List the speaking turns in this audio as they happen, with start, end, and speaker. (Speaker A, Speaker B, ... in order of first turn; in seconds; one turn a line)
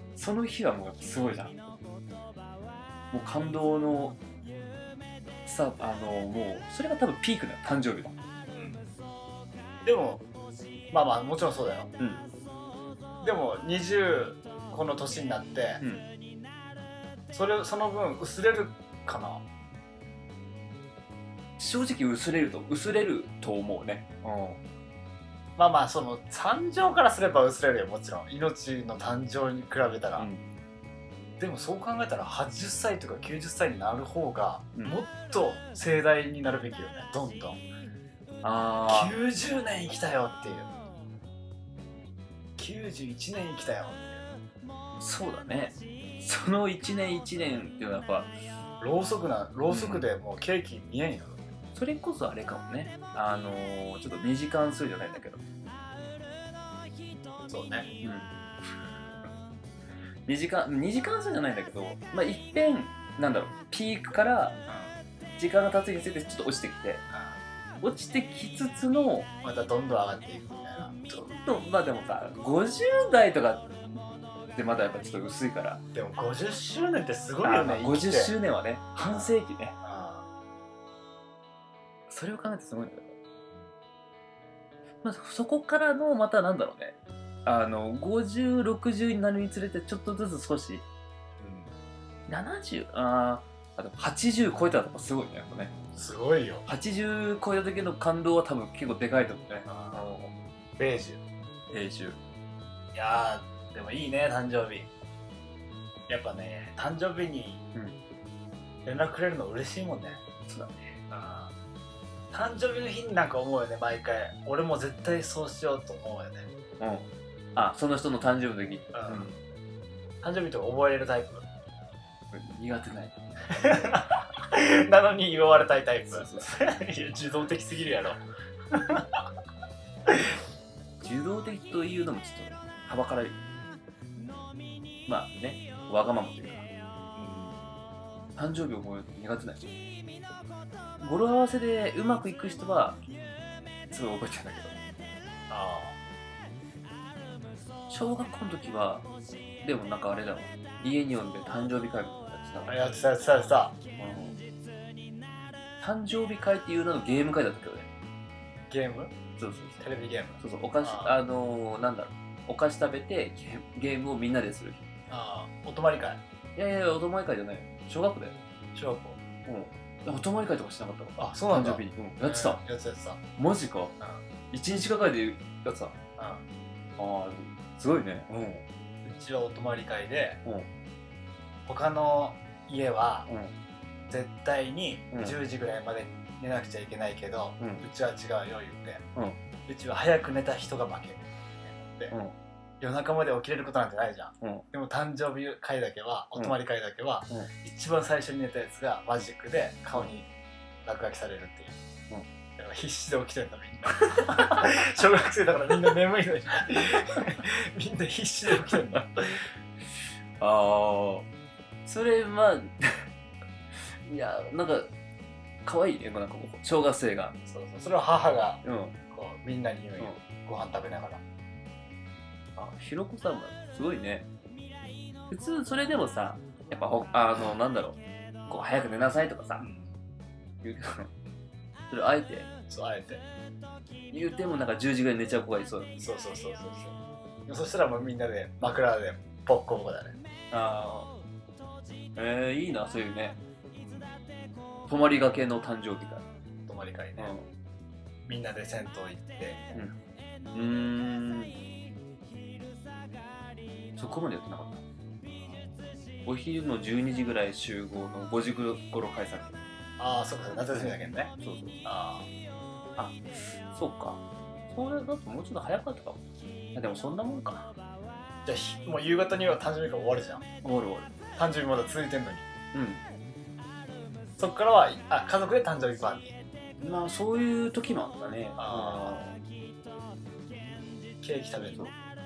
Speaker A: 0.1-1.5
Speaker A: 3.1-4.2
Speaker A: 5.4-8.1
Speaker B: 8.5-8.8
Speaker B: 9.8-10.2
Speaker B: 10.9-11.9
Speaker A: 12.0-12.2
Speaker B: 13.2-15.8
Speaker A: 15.8-16.1
Speaker B: 17.3-19.4
Speaker A: 21.6-24.6
Speaker B: 25.6-30.3
Speaker A: 30.2-30.4
Speaker B: 31.4-37.6
Speaker A: 38.4-39.1
Speaker B: 38.9-40.7
Speaker B: 42.6-44.2
Speaker A: 45.0-48.3
Speaker B: 48.8-51.4
Speaker A: 49.7-50.1
Speaker A: 51.7-55.4
Speaker B: 57.5-57.9
Speaker A: 58.0-58.3
Speaker A: 60.3-64.6
Speaker B: 64.7-64.9
Speaker A: 65.4-67.0
Speaker B: 67.1-67.4
Speaker A: 67.8-69.3
Speaker B: 69.4-70.9
Speaker A: 70.8-73.8
Speaker A: 74.5-75.8
Speaker B: 75.9-78.3
Speaker A: 77.4-79.8
Speaker B: 79.0-80.2
Speaker A: 82.1-83.1
Speaker A: 85.0-86.9
Speaker A: 87.5-90.8
Speaker B: 91.4-91.7
Speaker A: 92.3-95.7
Speaker B: 95.9-96.6
Speaker A: 96.7-100.3
Speaker B: 99.7-100.0
Speaker B: 100.8-101.2
Speaker A: 101.7-102.2
Speaker B: 102.9-104.9
Speaker B: 106.1-107.6
Speaker B: 108.8-110.2
Speaker A: 110.5-111.0
Speaker B: 111.1-111.5
Speaker B: 112.3-116.5
Speaker A: 116.8-119.4
Speaker B: 118.9-119.3
Speaker B: 120.2-121.5
Speaker A: 122.3-123.2
Speaker B: 123.5-129.2
Speaker A: 126.1-126.5
Speaker B: 130.1-130.4
Speaker A: 131.0-133.4
Speaker A: 135.1-136.6
Speaker B: 137.1-137.6
Speaker A: 138.3-139.7
Speaker A: 141.0-143.0
Speaker A: 143.9-144.8
Speaker B: 145.5-146.0
Speaker A: 147.9-149.1
Speaker A: 149.6-152.8
Speaker B: 152.7-153.8
Speaker A: 154.0-154.4
Speaker A: 155.8-157.9
Speaker B: 158.7-159.1
Speaker A: 159.4-159.8
Speaker B: 159.8-161.2
Speaker A: 160.4-164.8
Speaker B: 165.1-166.2
Speaker A: 166.6-168.4
Speaker B: 168.7-169.2
Speaker A: 169.4-172.6
Speaker B: 171.2-173.2
Speaker A: 173.4-173.9
Speaker A: 174.5-175.9
Speaker B: 176.2-176.4
Speaker A: 177.0-178.6
Speaker B: 179.0-180.4
Speaker B: 181.7-183.3
Speaker A: 183.3-183.5
Speaker B: 184.1-189.0
Speaker A: 185.1-185.4
Speaker A: 187.6-187.8
Speaker B: 189.7-192.1
Speaker A: 192.1-192.3
Speaker B: 192.8-200.3
Speaker A: 194.4-194.7
Speaker B: 200.8-201.8
Speaker B: 202.6-209.4
Speaker A: 204.1-204.6
Speaker A: 208.7-209.0
Speaker A: 210.4-211.3
Speaker A: 211.8-213.0
Speaker A: 214.0-214.9
Speaker A: 215.6-217.4
Speaker B: 217.5-221.2
Speaker A: 218.6-219.0
Speaker A: 222.6-224.3
Speaker A: 225.3-229.7
Speaker B: 229.6-229.9
Speaker A: 230.6-231.1
Speaker A: 231.9-232.5
Speaker B: 232.7-233.2
Speaker A: 234.1-235.9
Speaker B: 236.0-240.1
Speaker A: 240.5-241.1
Speaker A: 242.2-243.4
Speaker B: 243.8-244.1
Speaker A: 244.9-246.2
Speaker B: 246.7-247.3
Speaker A: 247.2-247.5
Speaker B: 248.2-249.7
Speaker A: 250.5-251.6
Speaker A: 254.0-254.8
Speaker B: 255.2-255.7
Speaker A: 256.2-259.6
Speaker B: 260.0-261.3
Speaker A: 260.7-261.8
Speaker B: 261.8-262.3
Speaker A: 263.0-266.2
Speaker A: 266.7-267.7
Speaker B: 268.4-270.4
Speaker A: 270.6-271.1
Speaker B: 271.4-272.4
Speaker A: 272.7-273.0
Speaker B: 274.4-276.4
Speaker A: 276.8-279.4
Speaker B: 278.6-279.2
Speaker B: 281.2-281.9